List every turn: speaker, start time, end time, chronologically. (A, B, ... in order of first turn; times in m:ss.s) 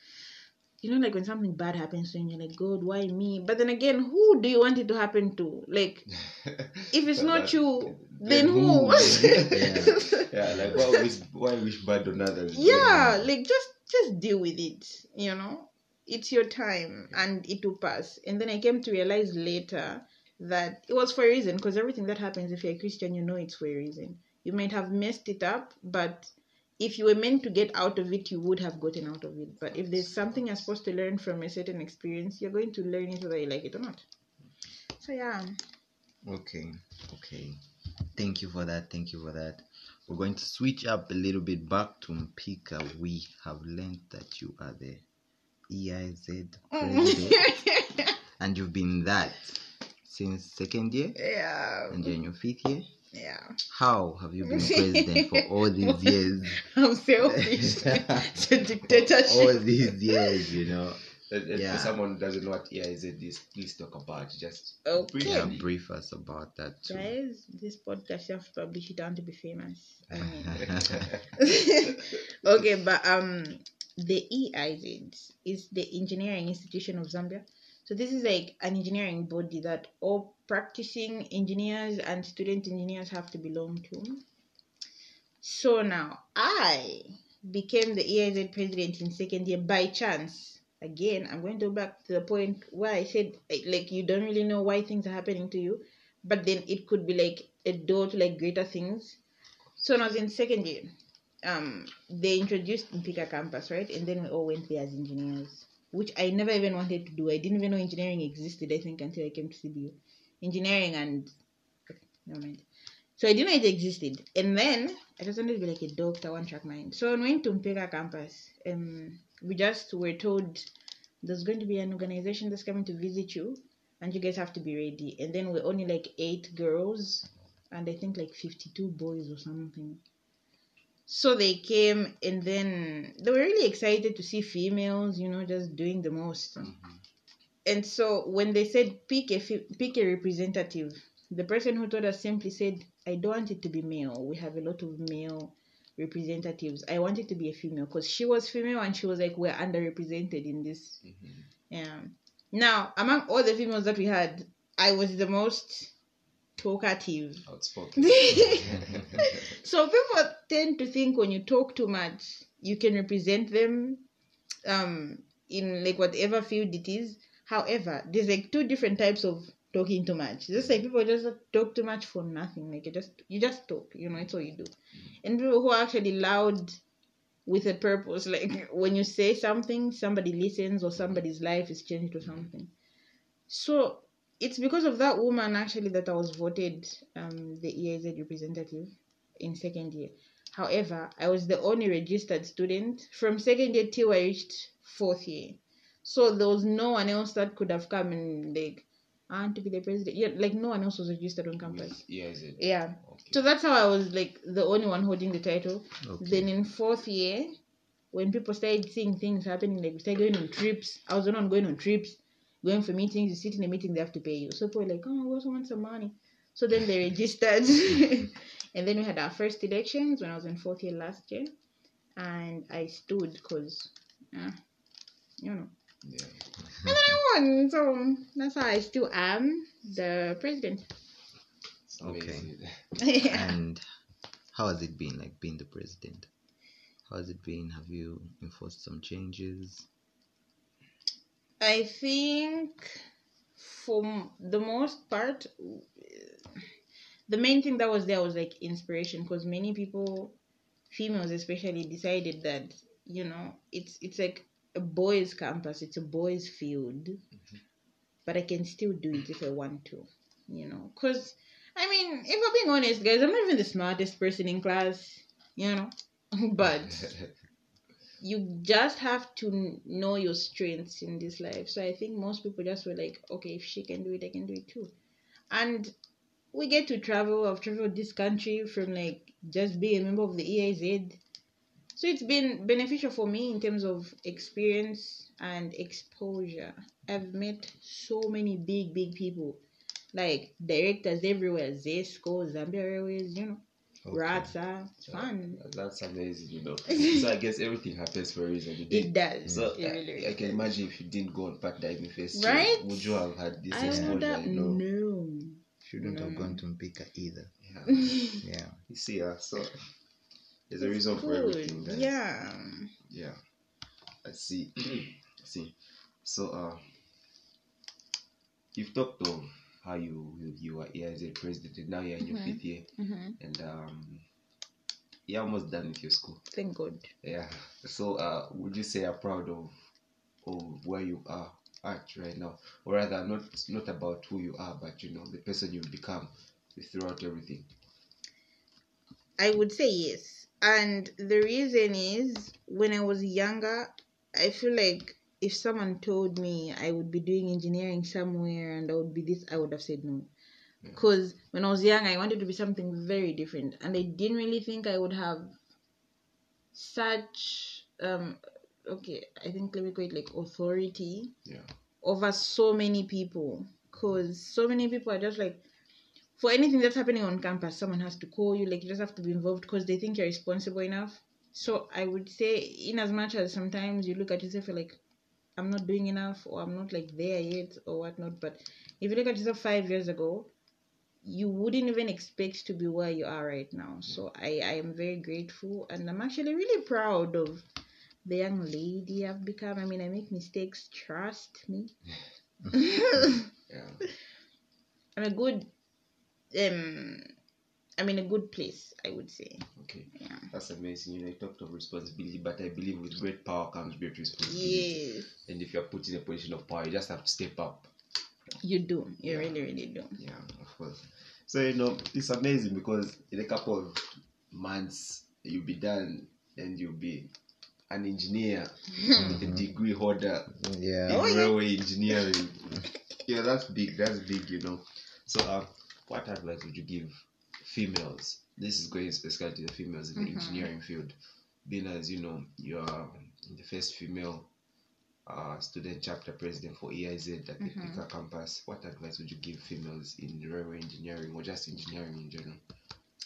0:00.8-0:06.1 A
0:06.3-0:13.3 B
0:06.9-0:11.0 A
0:09.5-0:10.0 C
0:12.5-0:34.0 A
0:35.0-0:35.6 A
0:36.2-0:37.6 C
0:38.1-0:45.0 C
0:45.7-0:47.5 C
0:46.7-0:48.1 A
0:48.4-0:51.2 C
0:51.2-0:52.1 A
0:51.9-0:52.9 C
0:53.1-0:53.6 A
0:53.7-0:56.6 C
0:54.4-1:00.4 A
0:57.2-0:58.2 C
0:59.0-1:02.0 C
1:01.2-1:05.6 B
1:04.8-1:05.6 A
1:05.2-1:07.1 C
1:06.9-1:24.2 A
1:10.1-1:11.1 C
1:10.7-1:11.2 B
1:25.4-1:39.2 A
1:39.8-1:40.9 A
1:41.4-1:51.3 A
1:51.9-1:52.6 A
1:53.2-2:00.7 A
2:01.2-2:10.0 A
2:11.1-2:16.7 A
2:16.6-2:16.9 B
2:17.6-2:31.0 A
2:31.0-2:31.5 B
2:31.7-2:35.9 A
2:36.6-2:37.4 A
2:37.4-2:39.4 B
2:38.0-2:44.0 A
2:44.6-2:56.8 A
2:57.4-3:02.7 A
3:03.5-3:22.0 A
3:21.6-3:23.4 B
3:22.6-3:27.6 A
3:26.0-3:26.5 C
3:28.1-3:41.5 A
3:42.2-3:44.6 A
3:45.4-3:45.7 A
3:46.0-3:46.5 B
3:46.8-3:50.9 A
3:51.9-3:52.8 B
3:52.0-3:52.5 C
3:53.0-3:53.4 A
3:53.2-3:53.8 C
3:54.5-3:56.3 C
3:57.0-3:59.9 C
4:01.6-4:03.0 A
4:03.6-4:06.4 A
4:07.3-4:10.4 A
4:10.9-4:17.2 A
4:18.2-4:27.1 A
4:28.2-4:34.9 A
4:35.5-4:35.9 A
4:36.5-4:41.2 A
4:42.0-4:49.6 A
4:50.1-4:55.6 A
4:54.1-4:54.5 C
4:55.0-5:04.8 B
4:56.9-4:57.2 A
4:58.9-5:00.7 A
5:02.3-5:06.6 A
5:03.8-5:04.2 C
5:05.8-5:07.5 C
5:07.6-5:08.2 B
5:07.9-5:08.4 A
5:08.4-5:08.8 C
5:08.9-5:09.9 B
5:10.7-5:12.2 B
5:10.8-5:12.9 A
5:13.0-5:13.4 B
5:14.2-5:17.0 B
5:18.7-5:24.2 B
5:22.3-5:23.3 A
5:25.3-5:26.4 B
5:26.5-5:27.1 A
5:27.2-5:29.9 B
5:30.4-5:37.7 B
5:39.4-5:50.3 A
5:50.9-5:55.6 A
5:56.7-6:01.3 A
6:01.4-6:01.7 B
6:02.0-6:05.6 A
6:06.4-6:15.0 A
6:15.6-6:20.5 A
6:21.2-6:27.6 A
6:28.2-6:31.9 A
6:32.7-6:33.5 A
6:33.7-6:34.0 B
6:35.2-6:35.7 A
6:36.5-6:37.3 A
6:38.0-6:39.7 A
6:39.8-6:47.9 B
6:44.5-6:45.3 A
6:48.6-6:50.2 A
6:49.2-6:49.6 B
6:50.2-6:57.3 B
6:57.9-7:00.5 B
6:59.2-6:59.7 C
7:00.5-7:01.2 C
7:01.1-7:14.5 B
7:01.1-7:01.6 A
7:10.2-7:10.7 A
7:15.2-7:22.6 B
7:17.6-7:18.0 A